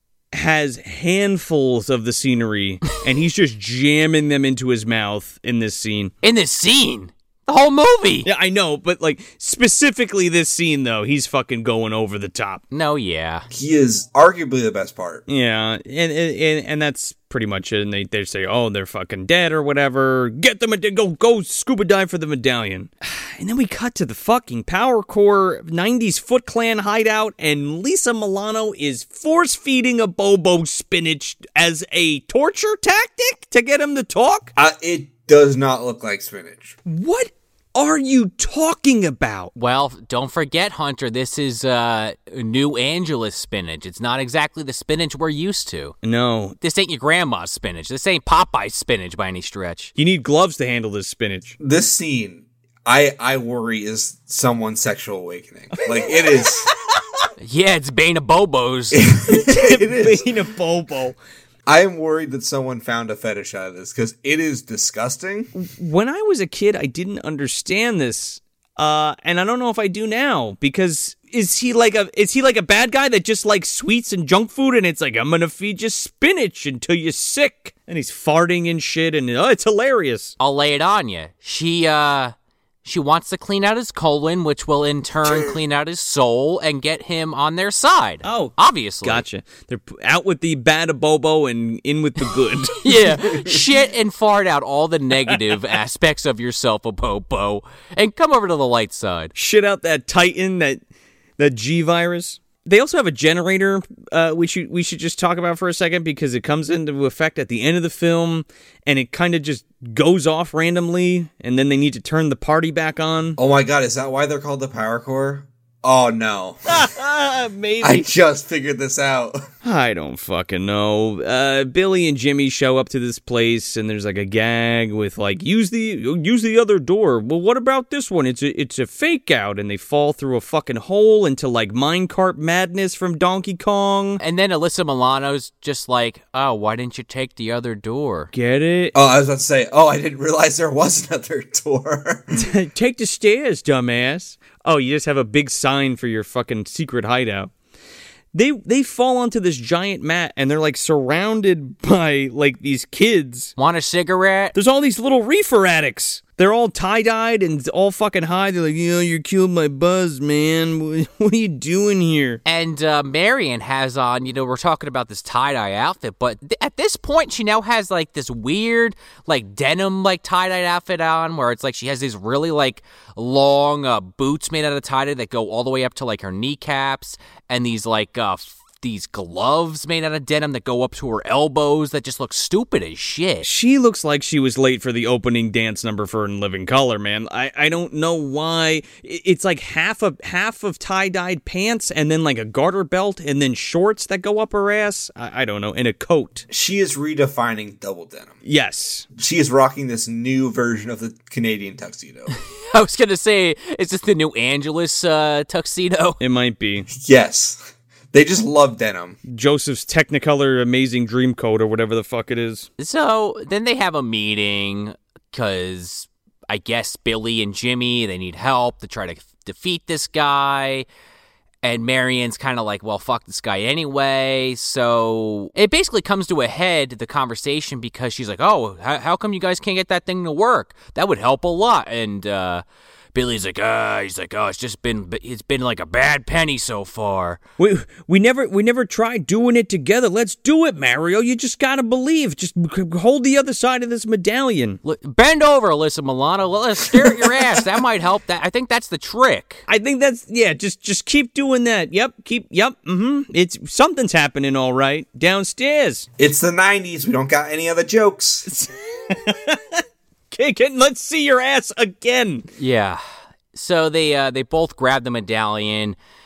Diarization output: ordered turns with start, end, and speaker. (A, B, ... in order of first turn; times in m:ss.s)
0:00.3-0:06.1 A
0:06.2-0:08.3 B
0:08.2-0:12.6 A
0:12.7-0:13.5 B
0:13.5-0:15.2 C
0:15.3-0:34.5 A
0:34.6-0:36.8 C
0:36.8-0:39.5 A
0:39.6-0:46.0 B
0:46.0-0:46.6 A
0:46.6-0:49.9 B
0:50.0-0:51.6 A
0:51.6-0:56.7 C
0:55.8-0:56.5 A
0:57.4-0:59.1 B
0:58.9-1:00.3 C
0:59.2-1:01.2 A
1:01.7-1:05.5 C
1:05.5-1:20.4 A
1:20.4-1:29.2 B
1:28.2-1:33.2 A
1:32.8-1:39.3 B
1:39.4-1:40.8 A
1:41.4-1:53.4 A
1:53.4-1:56.8 C
1:56.7-1:58.1 A
1:57.8-1:59.4 C
1:59.6-2:14.2 A
2:14.2-2:18.3 B
2:18.3-2:18.9 A
2:18.9-2:22.4 C
2:22.4-2:27.5 A
2:28.3-2:33.5 A
2:33.6-2:34.6 B
2:34.6-2:42.4 A
2:42.4-3:03.5 B
3:03.4-3:16.5 A
3:16.5-3:18.4 C
3:18.4-3:19.1 A
3:19.2-3:22.3 C
3:22.7-3:26.2 B
3:26.2-3:26.9 A
3:26.9-3:29.2 C
3:29.3-3:32.7 A
3:32.8-3:40.9 B
3:41.6-3:57.4 B
3:57.6-4:04.8 A
4:04.8-4:09.6 B
4:09.7-4:16.1 A
4:16.2-4:18.5 C
4:18.5-4:22.5 A
4:22.6-4:23.0 B
4:23.5-4:26.0 B